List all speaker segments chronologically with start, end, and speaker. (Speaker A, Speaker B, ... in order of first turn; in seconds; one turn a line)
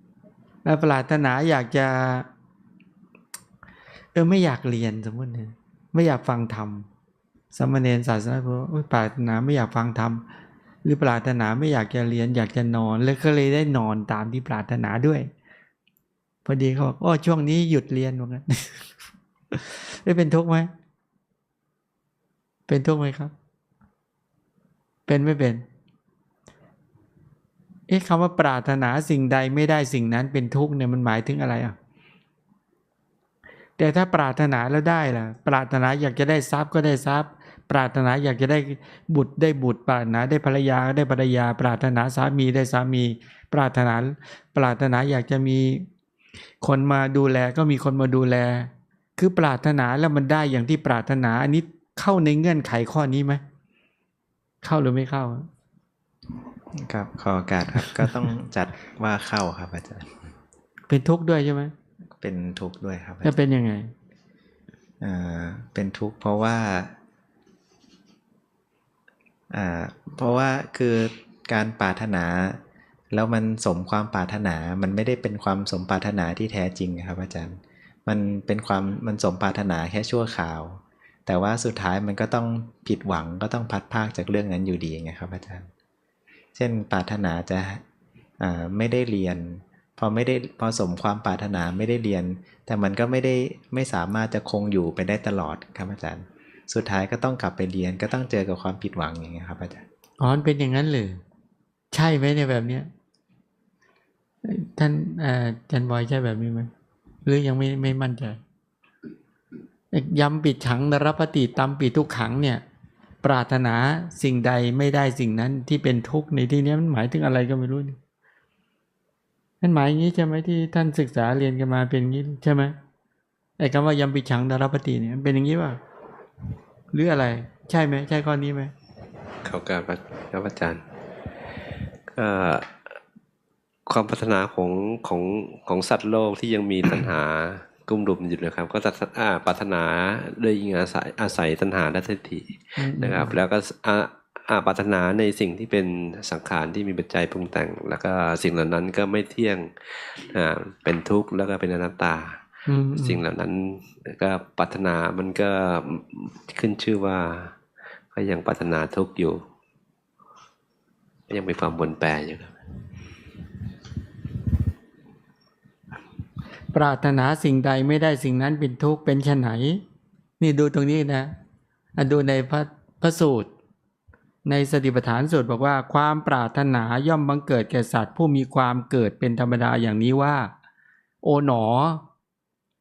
Speaker A: 0.6-2.3
Speaker A: 4.1-6.9
Speaker A: 7.5-10.2
Speaker A: 10.8-15.3
Speaker A: 16.4-18.9
Speaker A: 19.5-20.7
Speaker A: 22.7-23.3
Speaker A: 25.1-25.6
Speaker A: 27.9-31.7
Speaker A: 33.8-45.9
Speaker A: 46.6-53.4
Speaker A: 54.6-55.5
Speaker B: 56.8-60.3
Speaker A: 60.9-61.7
Speaker B: 62.2-63.3
Speaker A: 63.2-63.9
Speaker B: 65.0-66.9
Speaker B: 69.5-85.7
Speaker B: 86.5-87.8
Speaker B: 88.4-99.8
Speaker A: 100.2-101.2
Speaker A: 101.9-102.9
Speaker A: 104.4-106.7
Speaker A: 107.2-108.4
Speaker A: 109.9-112.6
Speaker A: 113.2-118.0
Speaker A: 119.6-122.7
Speaker A: 123.6-125.8
Speaker A: 126.9-128.7
Speaker C: 129.4-130.8
Speaker C: 132.1-132.7
Speaker C: 133.9-152.4
Speaker A: 142.8-143.3
Speaker A: 152.7-153.2
Speaker C: 153.0-157.6
Speaker C: 158.1-159.4
Speaker C: 161.3-162.6
Speaker A: 166.7-169.8
Speaker A: 170.4-171.3
Speaker A: 172.0-173.5
Speaker A: 174.4-180.5
Speaker A: 181.2-182.0